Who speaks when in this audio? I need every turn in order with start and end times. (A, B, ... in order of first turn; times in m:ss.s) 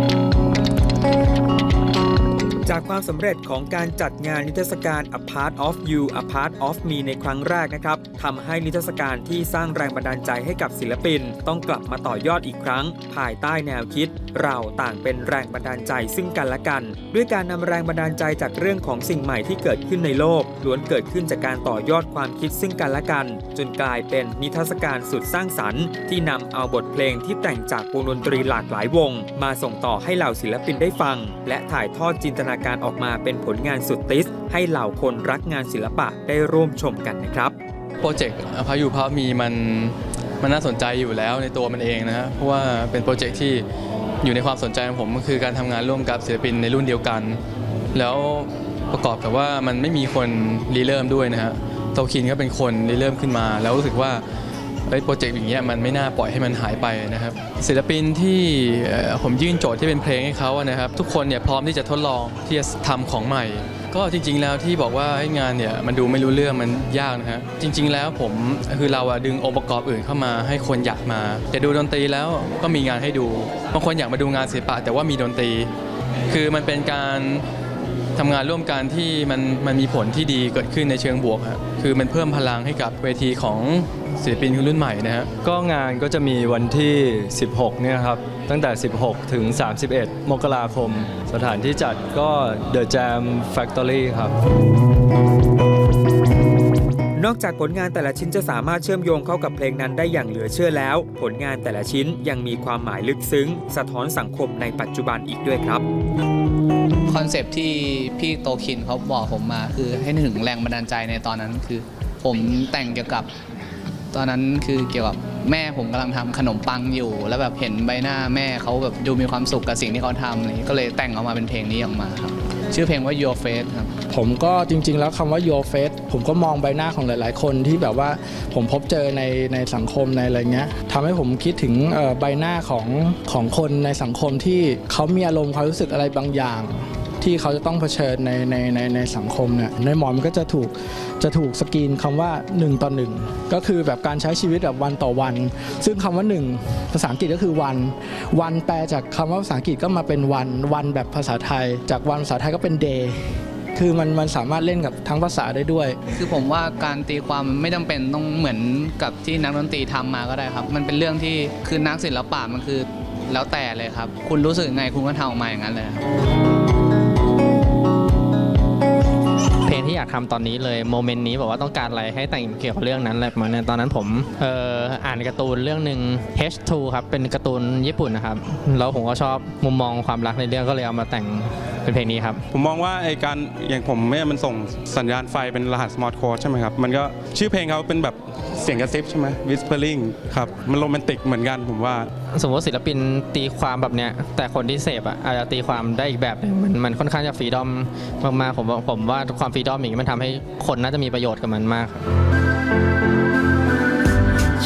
0:02.7-0:37.5 A
0:38.0-0:43.6 B
0:44.2-0:47.4 B
0:47.9-0:54.2 B
0:54.9-1:15.7 B
1:16.3-1:17.4 B
1:18.2-1:25.3 B
1:25.4-1:34.3 C
1:37.2-1:45.8 A
1:47.1-1:53.3 D
1:54.1-2:03.9 D
2:04.1-2:36.0 E
2:36.2-2:46.0 D
2:49.6-3:02.4 F
3:02.5-3:12.1 G
3:12.3-3:22.0 F